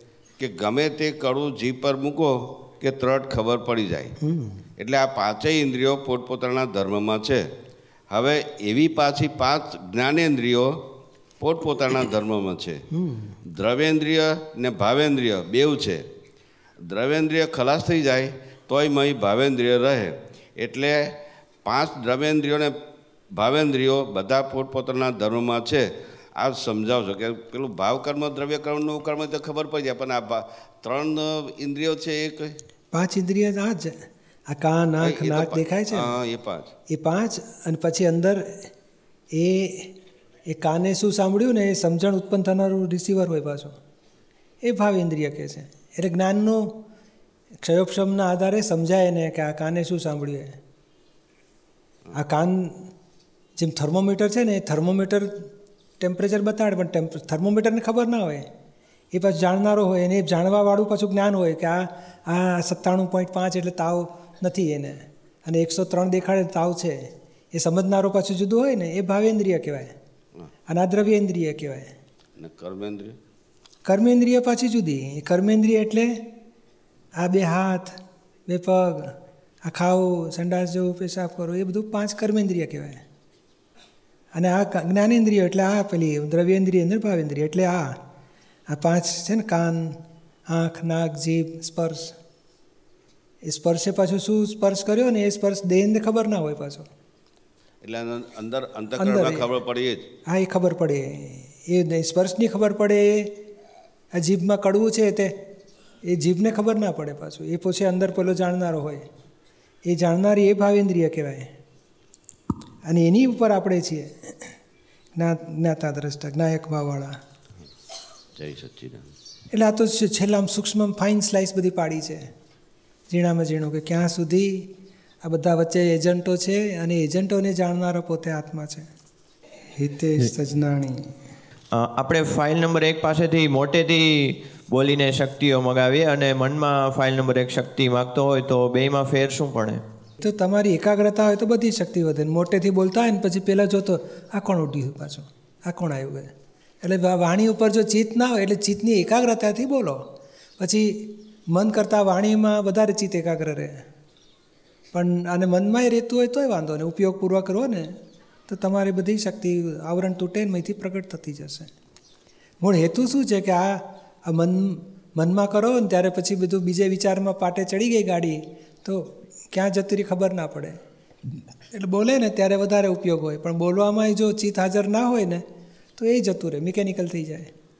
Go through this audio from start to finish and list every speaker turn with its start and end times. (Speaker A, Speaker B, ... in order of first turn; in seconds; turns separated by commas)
Speaker A: 0.4-4.1, Speaker B: 4.2-4.6, Speaker A: 4.8-7.5, Speaker A: 8.1-10.8, Speaker A: 11.4-12.8, Speaker B: 12.9-13.4, Speaker A: 13.5-16.0, Speaker A: 16.8-21.1, Speaker A: 21.6-22.7, Speaker A: 23.3-32.6, Speaker B: 32.9-34.0, Speaker B: 34.5-36.1, Speaker A: 35.0-36.7, Speaker B: 36.9-38.7, Speaker B: 39.3-39.9, Speaker B: 40.5-43.7, Speaker B: 44.6-46.7, Speaker B: 47.6-50.6, Speaker B: 52.1-52.9, Speaker B: 53.6-55.5, Speaker B: 56.0-58.5, Speaker B: 59.1-69.9, Speaker B: 70.7-71.9, Speaker A: 72.4-73.2, Speaker B: 73.8-76.2, Speaker B: 77.2-78.0, Speaker B: 78.5-83.0, Speaker B: 84.3-88.0, Speaker B: 88.7-92.1, Speaker B: 93.5-96.9, Speaker A: 97.8-100.0, Speaker B: 99.0-99.5, Speaker B: 100.3-103.3, Speaker B: 104.2-105.3, Speaker B: 106.1-109.0, Speaker B: 109.9-111.5, Speaker B: 112.9-114.5, Speaker B: 115.2-117.2, Speaker A: 118.4-119.1, Speaker B: 119.5-122.3, Speaker B: 123.1-124.7, Speaker B: 125.2-128.9, Speaker B: 129.8-131.1, Speaker C: 131.7-139.8, Speaker B: 140.2-146.3, Speaker B: 146.8-150.0, Speaker B: 150.6-153.8, Speaker B: 154.9-158.0, Speaker B: 158.5-161.7, Speaker B: 162.6-170.8, Speaker B: 171.7-175.4, Speaker B: 176.0-177.5